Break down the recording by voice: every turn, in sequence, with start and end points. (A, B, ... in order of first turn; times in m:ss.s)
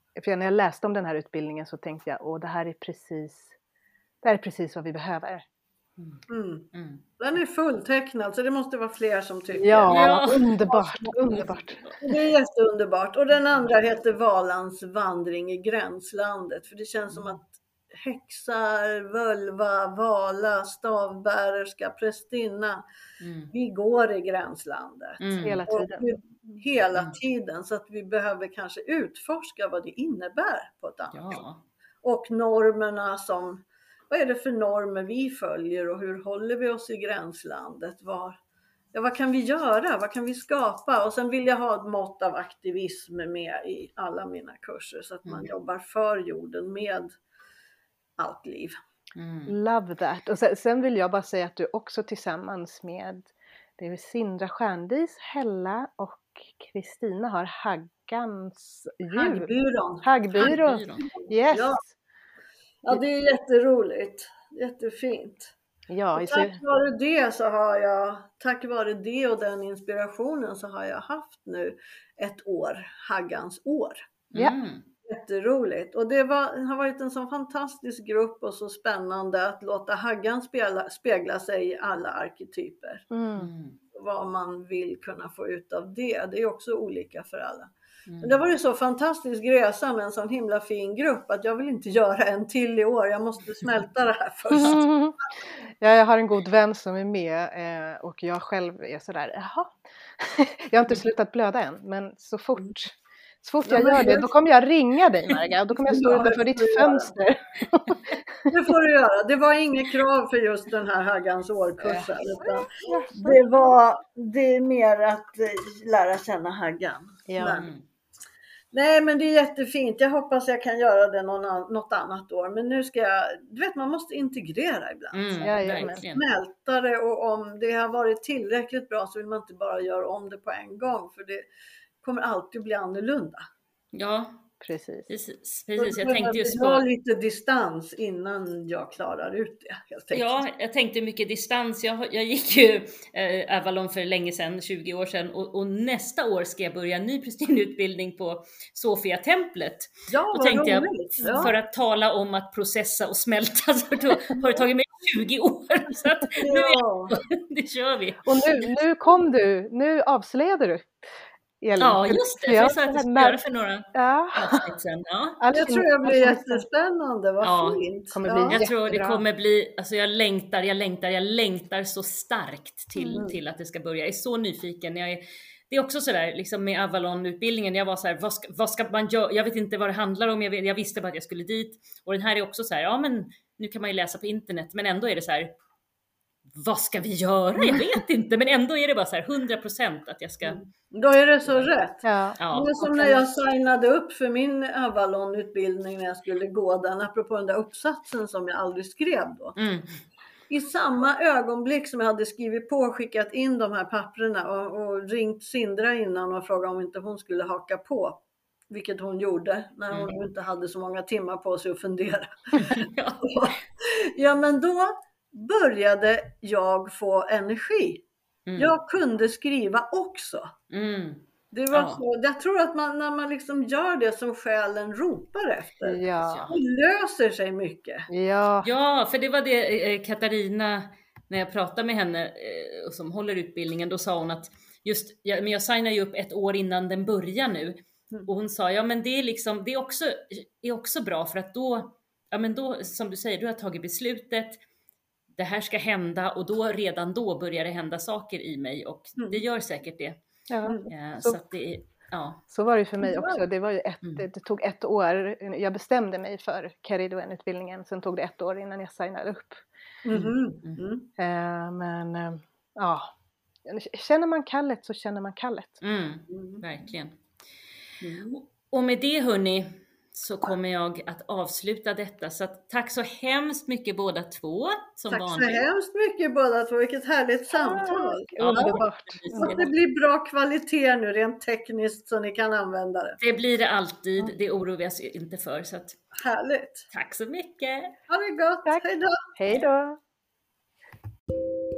0:00.2-0:03.5 A
0:04.2-0:05.4 A
0:06.0-0:07.0 B
0:06.3-0:10.0 C
0:09.6-0:11.8 A
0:09.9-0:12.1 B
0:12.0-0:22.8 C
0:23.2-0:23.5 B
0:23.5-0:31.4 C
0:25.2-0:25.6 B
0:25.4-0:26.0 A
0:31.1-0:31.6 B
0:32.0-0:38.4 C
0:38.9-0:47.1 C
0:48.2-0:48.8 C
0:49.2-0:49.6 B
0:49.5-0:59.5 A
0:59.1-1:01.8 C
1:00.0-1:02.0 A
1:00.3-1:01.0 B
1:02.8-1:05.5 C
1:05.9-1:06.6 A
1:06.2-1:14.0 C
1:14.3-1:14.9 B
1:15.1-1:23.0 C
1:23.1-1:23.5 A
1:23.4-1:23.8 B
1:23.9-1:34.9 C
1:28.1-1:28.4 B
1:34.5-1:48.5 A
1:43.6-1:44.3 C
1:45.9-1:47.2 C
1:48.5-1:57.7 C
1:51.8-1:53.4 A
1:57.3-1:57.6 A
1:57.5-1:57.8 B
1:58.7-2:11.5 C
2:05.1-2:06.2 B
2:05.4-2:06.0 A
2:12.0-2:13.4 C
2:13.9-2:14.4 B
2:14.6-2:15.1 A
2:15.1-2:16.8 B
2:15.8-2:20.4 C
2:20.1-2:38.7 B
2:30.1-2:31.5 C
2:34.4-2:34.7 C
2:36.3-2:37.2 C
2:38.2-2:41.0 A
2:41.6-2:43.4 A
2:41.8-2:45.4 B
2:43.9-2:44.7 A
2:45.4-2:46.6 A
2:45.5-2:48.6 C
2:47.4-2:47.8 B
2:48.1-2:49.2 A
2:48.4-3:05.5 B
2:53.0-2:53.2 A
2:53.1-2:53.4 C
3:06.5-3:10.6 B
3:10.4-3:19.6 C
3:12.0-3:13.2 A
3:12.4-3:12.7 B
3:19.6-3:20.0 B
3:20.5-3:38.0 C
3:29.9-3:30.2 B
3:32.7-3:33.4 B
3:38.5-3:38.7 B
3:38.6-3:40.5 C
3:40.7-3:42.0 B
3:41.5-3:48.1 C
3:45.8-3:46.5 A
3:46.2-3:46.6 B
3:48.1-3:48.7 A
3:48.6-4:04.6 B
4:05.3-4:10.2 B
4:10.5-4:11.4 A
4:10.7-4:10.9 C
4:10.9-4:12.4 B
4:12.5-4:19.6 A
4:13.0-4:13.4 C
4:20.0-4:21.1 C
4:20.1-4:20.8 B
4:21.2-4:23.1 A
4:23.7-4:25.8 A
4:25.8-4:27.2 B
4:26.3-4:26.6 C
4:28.0-4:28.4 C
4:28.4-4:35.6 B
4:35.1-4:38.8 C
4:37.6-4:39.7 A
4:38.4-4:39.7 B
4:39.3-4:43.2 C
4:43.2-4:46.0 B
4:46.2-4:46.9 C
4:46.9-4:48.0 B
4:48.1-4:49.3 C
4:49.4-4:50.0 A